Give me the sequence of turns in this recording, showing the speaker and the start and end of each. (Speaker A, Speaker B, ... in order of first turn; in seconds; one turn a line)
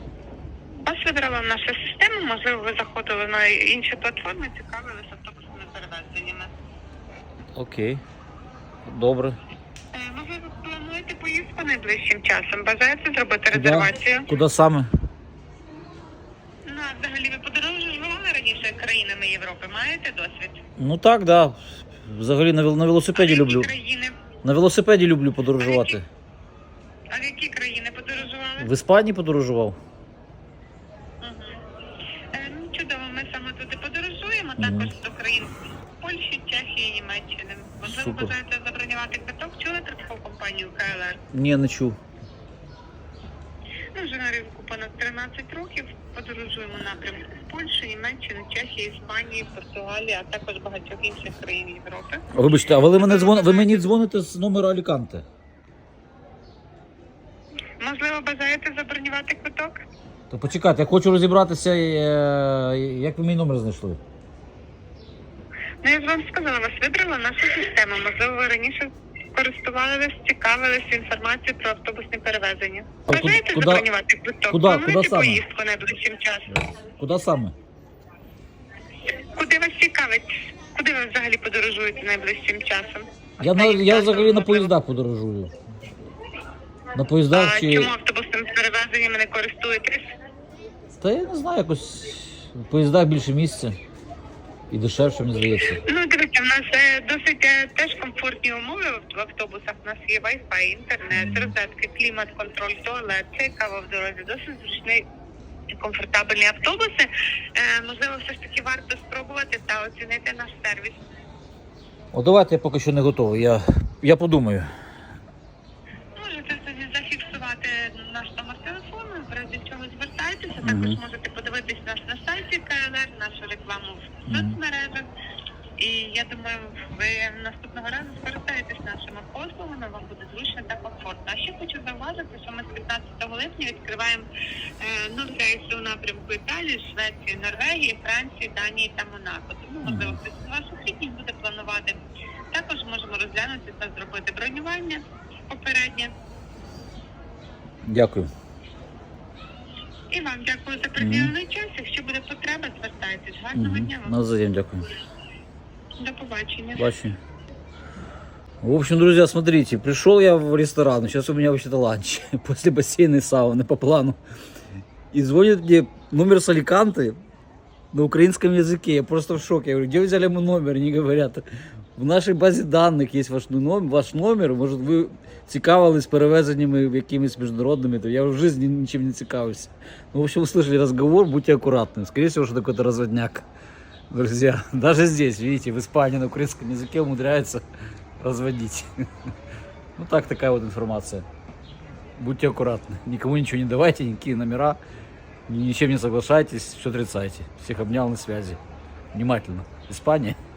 Speaker A: 0.8-6.5
Speaker B: 7.5-8.0
Speaker B: 8.8-9.4
Speaker A: 9.9-14.3
Speaker B: 13.5-14.9
Speaker A: 16.6-20.6
Speaker B: 20.8-23.7
Speaker A: 23.1-24.2
Speaker B: 24.4-26.1
Speaker A: 25.6-26.0
Speaker A: 27.1-28.7
Speaker B: 28.6-29.8
Speaker A: 31.2-31.6
Speaker A: 32.3-41.2
Speaker B: 34.6-34.9
Speaker B: 37.8-38.3
Speaker B: 41.3-42.0
Speaker A: 43.9-52.2
Speaker B: 52.3-55.2
Speaker A: 53.0-53.9
Speaker A: 57.8-59.8
Speaker B: 60.3-64.0
Speaker A: 65.8-76.7
Speaker B: 73.1-73.9
Speaker B: 74.5-75.5
Speaker B: 76.8-77.5
Speaker A: 79.3-84.7
Speaker B: 83.4-85.5
Speaker B: 87.0-87.9
Speaker A: 87.3-90.1
Speaker B: 91.0-93.8
Speaker B: 94.7-95.8
Speaker A: 95.8-105.1
Speaker B: 101.1-101.5
Speaker A: 105.7-111.0
Speaker B: 112.1-114.7
Speaker A: 116.2-125.1
Speaker B: 120.6-121.0
Speaker B: 124.3-124.6
Speaker A: 125.8-134.3
Speaker A: 134.8-142.0
Speaker B: 139.8-140.2
Speaker A: 142.5-146.1
Speaker B: 147.8-148.3
Speaker A: 150.1-154.2
Speaker B: 151.0-151.3
Speaker B: 153.6-154.9
Speaker A: 156.0-156.9
Speaker B: 156.8-157.2
Speaker B: 158.6-164.2
Speaker B: 165.1-167.2
Speaker B: 167.9-183.5
Speaker B: 184.1-187.6
Speaker B: 188.2-189.1
Speaker B: 190.0-191.3
Speaker B: 192.2-194.8
Speaker B: 195.5-198.6
Speaker B: 199.1-200.4